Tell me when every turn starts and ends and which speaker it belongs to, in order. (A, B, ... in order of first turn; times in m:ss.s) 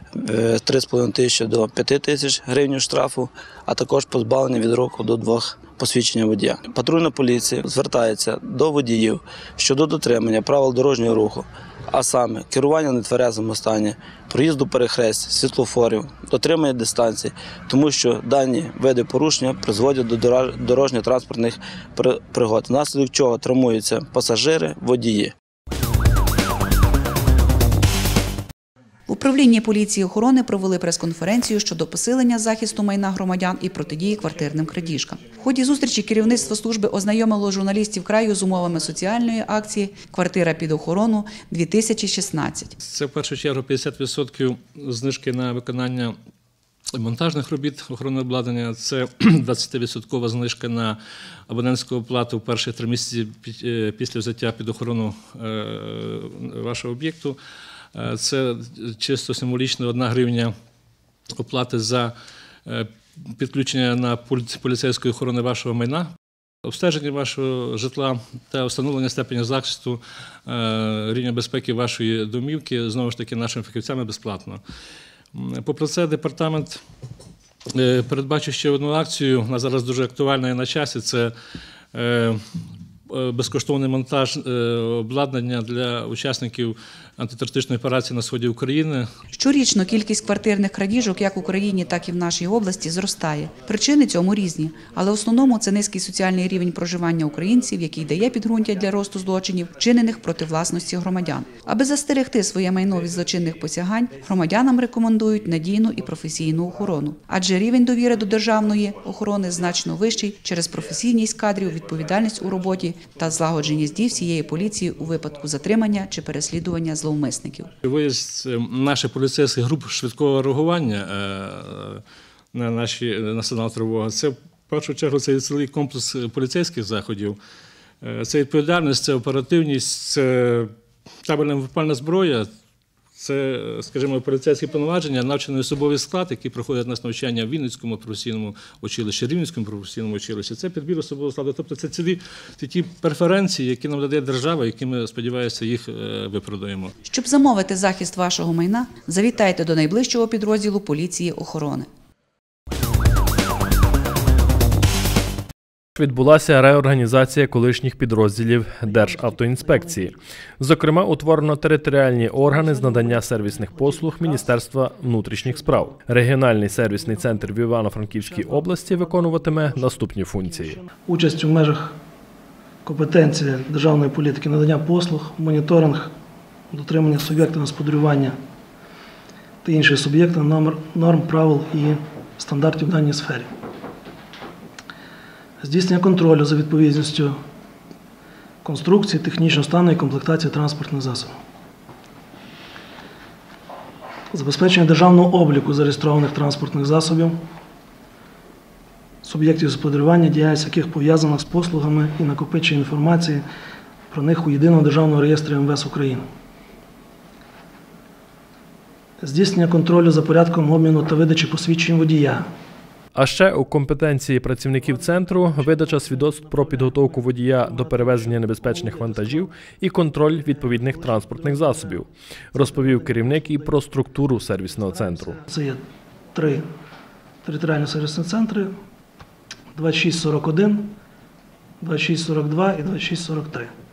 0:00.2-0:25.3 A
0:29.1-0:42.8 B
0:42.8-0:46.2 C
0:47.0-0:51.0 C
0:51.5-0:57.4 C
0:58.0-1:00.5 C
1:01.4-1:02.1 C
1:02.7-1:06.1 C
1:06.6-1:14.6 C
1:15.3-1:16.8 C
1:17.8-1:21.3 C
1:21.9-1:22.4 C
1:23.1-1:29.1 C
1:29.3-1:57.7 B
1:57.8-2:02.0 C
2:02.5-2:07.4 C
2:08.0-2:10.7 C
2:11.2-2:12.5 C
2:13.2-2:26.9 C
2:27.0-2:31.9 B
2:36.0-2:50.8 D
2:38.8-2:40.0 E
2:42.4-2:44.5 E
2:45.3-2:46.0 E
2:46.9-2:47.5 E
2:48.1-2:52.0 E
2:52.8-2:56.1 E
2:56.7-2:58.4 E
2:59.6-3:03.5 E
3:05.6-3:07.4 E
3:08.6-3:11.3 E
3:14.3-3:17.4 E
3:19.2-3:23.4 E
3:24.1-3:26.2 E
3:29.2-3:32.5 E
3:33.2-3:45.4 D
3:34.8-3:39.5 E
3:40.4-3:42.0 E
3:42.6-3:43.8 E
3:44.9-3:45.8 E
3:46.4-3:46.7 E
3:47.4-3:48.7 E
3:49.8-3:51.0 E
3:51.8-3:53.7 E